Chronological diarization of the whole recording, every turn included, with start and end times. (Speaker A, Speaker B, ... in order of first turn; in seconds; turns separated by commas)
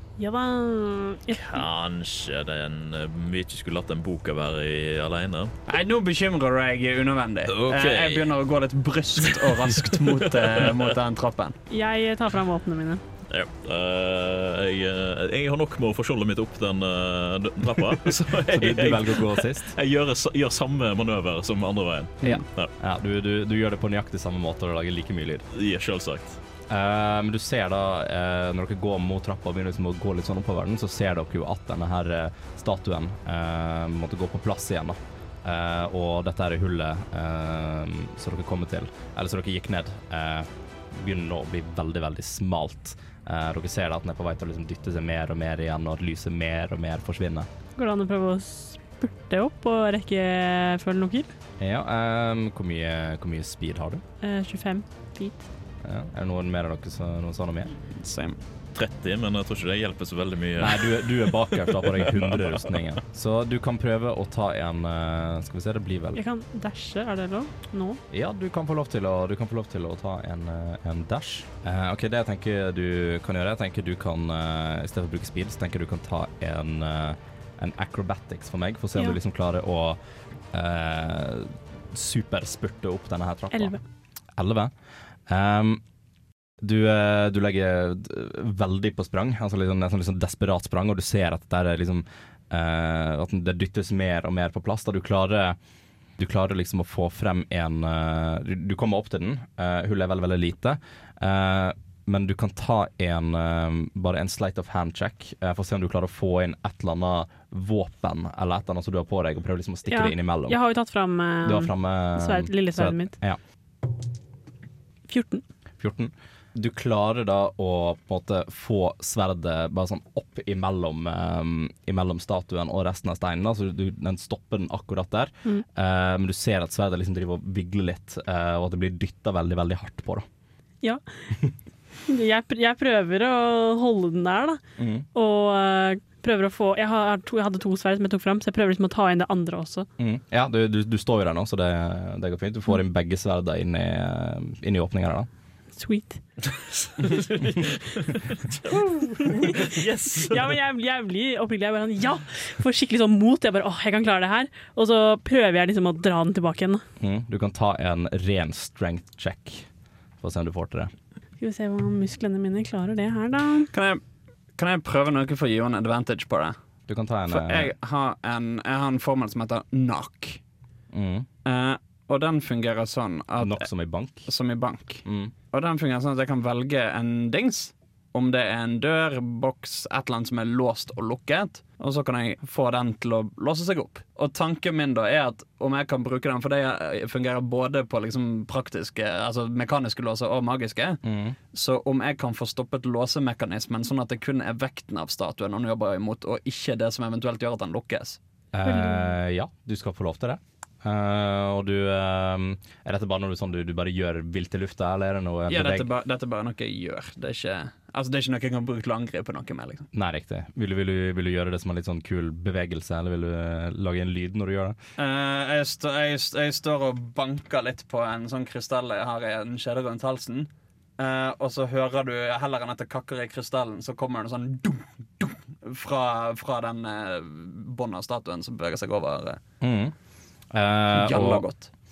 Speaker A: 0.2-1.6, Speaker B: 1.3-5.5, Speaker C: 5.7-11.6, Speaker B: 7.5-8.3, Speaker B: 9.2-10.9, Speaker A: 11.7-13.0, Speaker B: 13.3-22.7, Speaker D: 18.3-19.7, Speaker D: 22.2-25.4, Speaker B: 25.5-26.4, Speaker D: 26.7-47.5, Speaker A: 47.8-51.3, Speaker D: 51.6-54.0, Speaker A: 54.2-55.4, Speaker D: 55.8-57.7, Speaker C: 57.9-58.4, Speaker B: 58.7-62.3, Speaker D: 60.6-66.2, Speaker A: 66.1-68.0, Speaker D: 68.1-80.0, Speaker D: 80.5-83.8, Speaker A: 83.5-83.8, Speaker D: 84.3-84.7, Speaker D: 85.3-85.8, Speaker D: 86.6-95.6, Speaker D: 96.2-110.6, Speaker A: 109.9-113.1, Speaker D: 111.4-113.4, Speaker A: 115.1-115.4, Speaker D: 115.8-130.2, Speaker A: 130.8-131.3, Speaker A: 132.1-134.6, Speaker D: 134.8-135.1, Speaker A: 135.1-139.9, Speaker D: 140.0-145.3, Speaker A: 145.8-146.2, Speaker B: 146.5-150.5, Speaker A: 149.2-156.8, Speaker D: 157.0-159.7, Speaker D: 160.2-160.9, Speaker A: 161.4-163.7, Speaker C: 163.7-164.0, Speaker C: 164.5-166.6, Speaker D: 166.9-167.7, Speaker C: 167.3-170.4, Speaker D: 170.9-171.3, Speaker C: 171.4-173.6, Speaker D: 173.4-174.3, Speaker C: 174.2-191.0, Speaker D: 175.0-175.3, Speaker D: 191.0-191.4, Speaker C: 191.5-198.2, Speaker D: 198.5-205.9, Speaker A: 198.6-199.1, Speaker C: 205.5-209.9, Speaker D: 209.9-214.8, Speaker C: 215.0-229.4, Speaker D: 229.6-229.9, Speaker D: 230.5-231.4, Speaker C: 230.9-231.7